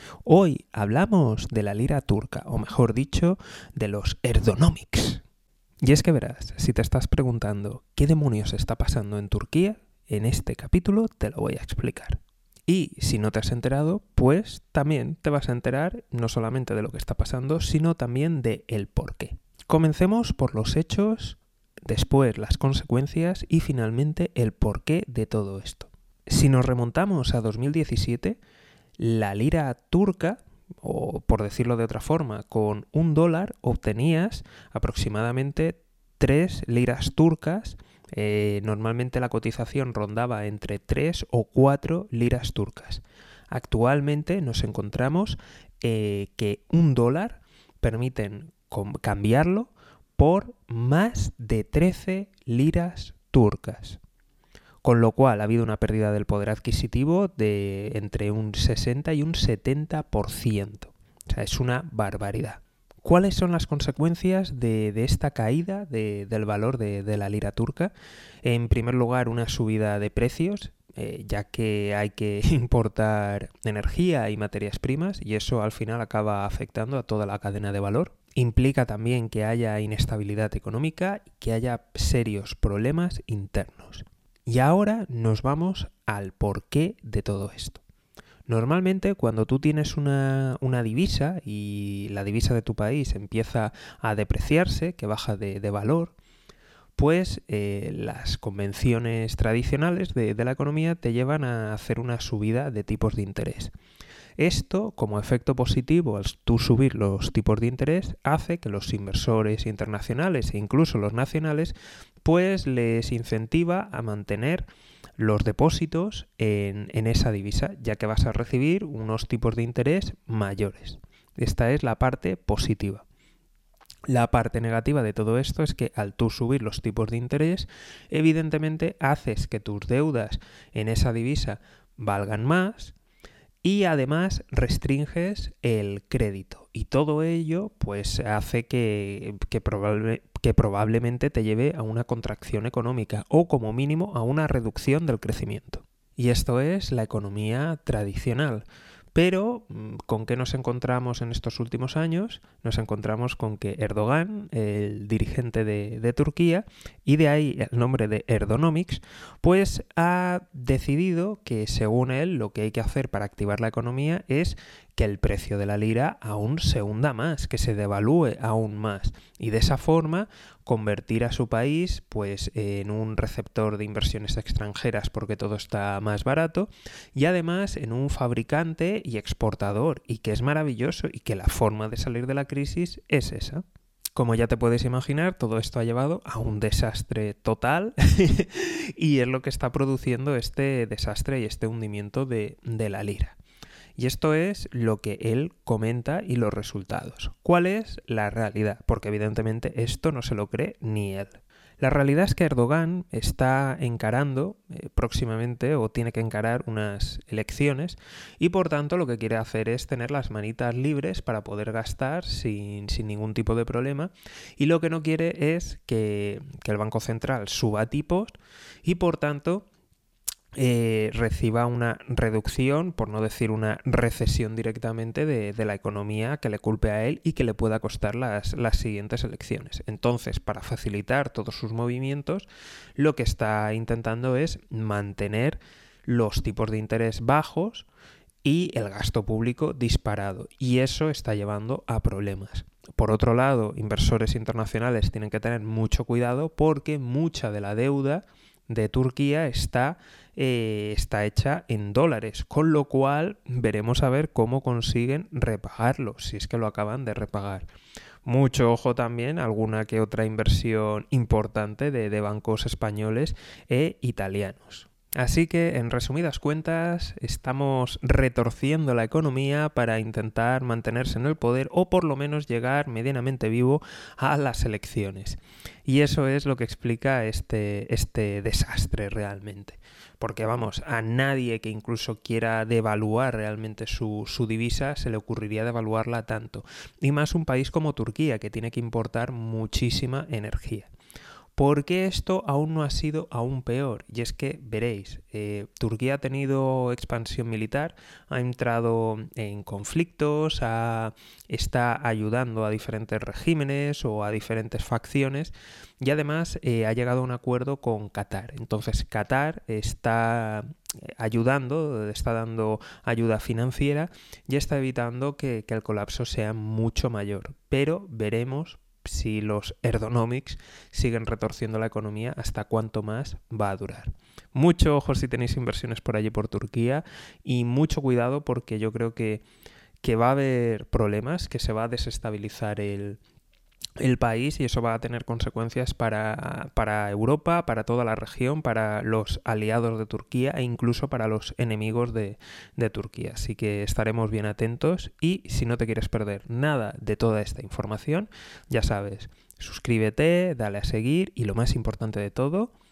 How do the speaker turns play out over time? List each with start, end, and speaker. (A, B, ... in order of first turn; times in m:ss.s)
0:00.2-0:05.2 A
0:05.8-0:28.4 A
0:29.0-0:54.0 A
0:54.8-1:07.9 A
1:08.4-1:27.8 A
1:28.4-1:36.2 A
1:37.0-1:43.7 A
1:44.4-1:54.7 A
1:55.2-2:03.0 A
2:04.1-2:12.9 A
2:13.6-3:03.6 A
3:04.2-3:13.4 A
3:14.0-3:39.7 A
3:40.6-3:57.9 A
3:58.4-4:17.7 A
4:18.2-4:50.9 A
4:51.6-5:29.4 A
5:30.0-5:33.2 A
5:34.0-5:52.7 A